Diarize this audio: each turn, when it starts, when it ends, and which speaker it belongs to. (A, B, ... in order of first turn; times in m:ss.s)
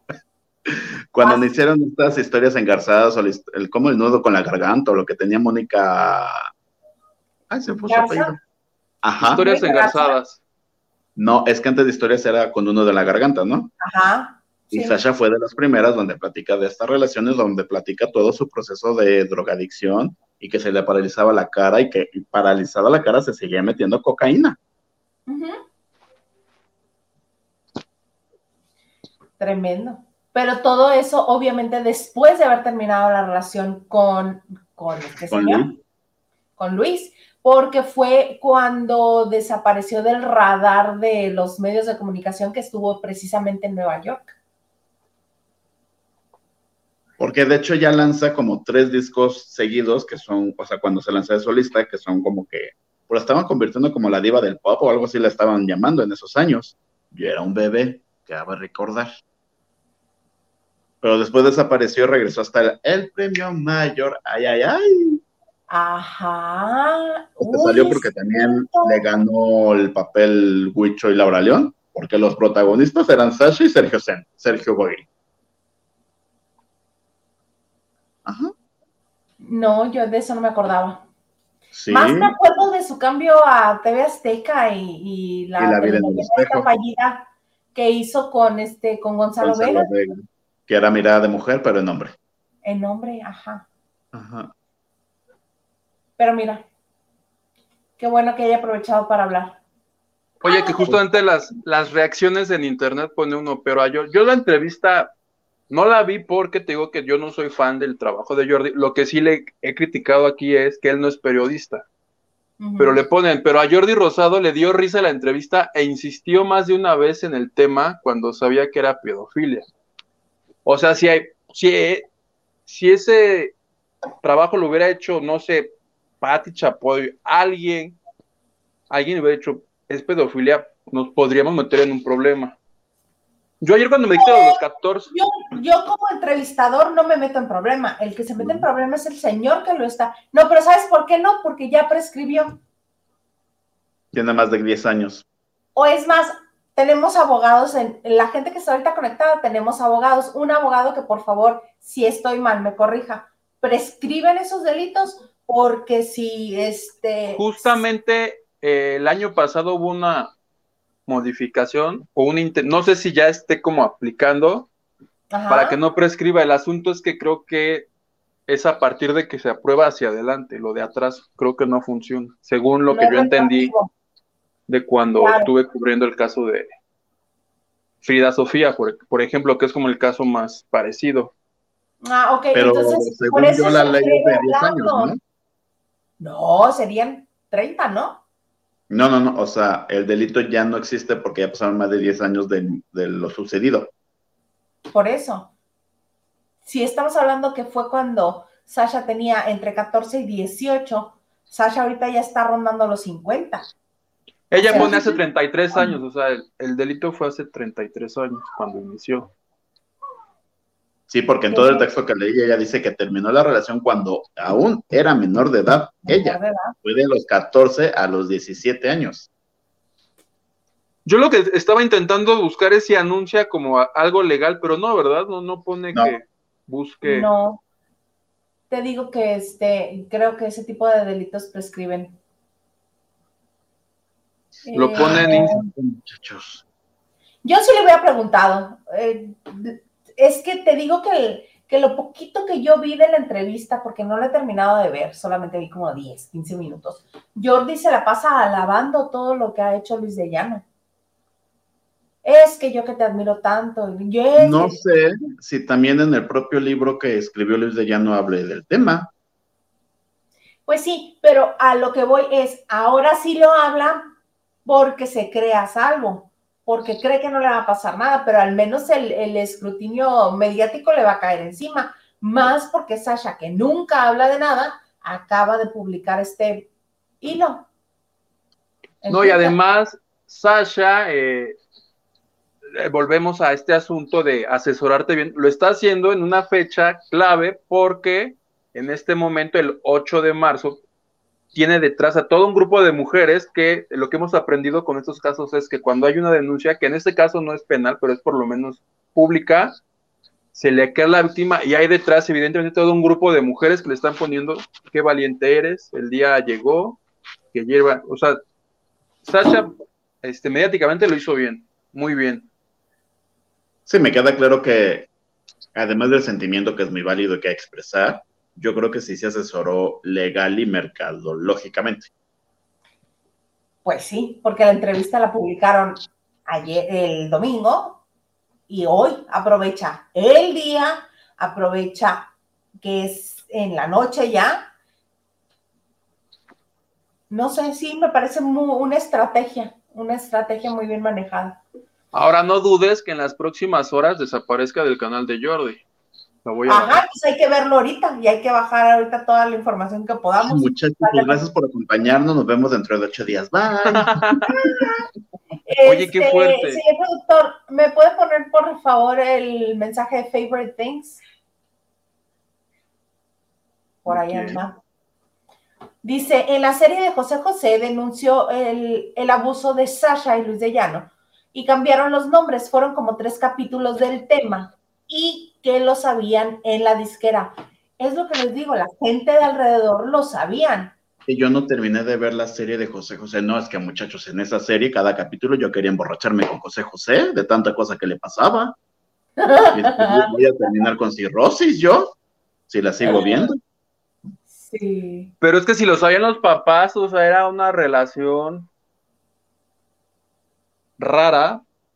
0:00.7-0:06.5 A
0:01.2-0:01.4 B
0:07.5-0:08.4 A
0:07.7-0:08.3 B
0:09.0-0:09.4 A
0:09.2-0:10.4 C
0:09.3-0:10.2 B
0:11.2-0:13.7 A
0:13.8-0:15.0 B
0:14.7-0:24.6 A
0:25.3-0:25.6 B
0:29.4-0:35.7 B
0:35.3-0:35.7 A
0:36.6-0:44.3 B
0:47.2-0:59.1 A
1:01.0-1:05.2 A
1:05.7-1:09.0 B
1:07.4-1:15.0 A
1:18.2-1:18.5 A
1:19.4-1:21.0 B
1:21.7-1:22.3 A
1:21.9-1:29.9 B
1:25.6-1:26.7 A
1:29.4-1:32.2 A
1:32.6-1:33.7 B
1:34.1-1:34.5 A
1:36.2-1:36.6 B
1:38.0-1:39.6 B
1:40.4-1:45.1 C
1:40.4-1:41.0 B
1:45.7-1:51.8 C
1:52.6-1:53.0 B
1:52.8-1:59.7 C
2:00.6-2:02.1 C
2:02.7-2:03.5 C
2:04.2-2:08.0 C
2:08.9-2:12.6 C
2:13.6-2:15.1 C
2:14.2-2:22.6 B
2:18.4-2:18.6 A
2:24.1-2:25.2 A
2:25.7-2:37.8 B
2:37.4-2:40.3 C
2:41.1-2:44.7 C
2:45.3-2:45.8 B
2:45.5-2:47.9 C
2:48.5-2:53.7 C
2:52.9-2:53.9 B
2:54.7-2:56.7 C
2:55.2-2:55.5 B
2:58.0-3:01.3 C
3:02.0-3:05.1 B
3:02.5-3:05.2 A
3:06.2-3:08.2 B
3:08.9-3:13.9 A
3:14.9-3:15.5 B
3:16.6-3:23.7 B
3:24.5-3:29.3 C
3:24.6-3:24.9 B
3:24.7-3:25.2 A
3:31.1-3:39.3 A
3:31.5-3:31.9 B
3:36.0-3:36.8 B
3:41.0-3:47.3 C
3:47.0-3:47.6 B
3:48.7-3:52.2 B
3:54.6-3:55.7 B
3:54.7-3:55.6 C
3:55.0-3:56.6 A
3:57.4-4:10.6 B
4:12.2-4:14.8 B
4:14.4-4:19.1 A
4:20.6-4:24.1 B
4:24.6-4:36.7 B
4:37.2-4:37.7 B
4:39.0-4:39.6 B
4:39.1-4:41.6 C
4:42.7-4:50.8 C
4:51.5-4:59.7 C
5:00.5-5:07.0 C
5:07.5-5:08.4 C
5:09.2-5:12.5 C
5:13.9-5:15.1 A
5:15.7-5:22.1 A
5:23.8-5:28.0 B
5:28.7-5:34.7 B
5:37.3-5:41.6 B
5:42.1-5:45.8 C
5:46.4-5:47.0 C
5:46.7-5:51.4 B
5:50.4-5:54.4 A
5:53.9-5:54.6 C
5:54.5-5:55.0 B
5:55.6-6:01.2 B
5:55.8-5:56.8 C
6:04.0-6:04.8 B
6:04.1-6:04.6 C
6:06.0-6:20.9 B
6:21.3-6:28.8 A
6:29.4-6:30.3 B
6:29.7-6:32.2 A
6:32.7-6:33.6 A
6:33.0-6:33.4 B
6:34.5-6:35.3 B
6:35.4-6:38.7 C
6:41.0-6:41.6 C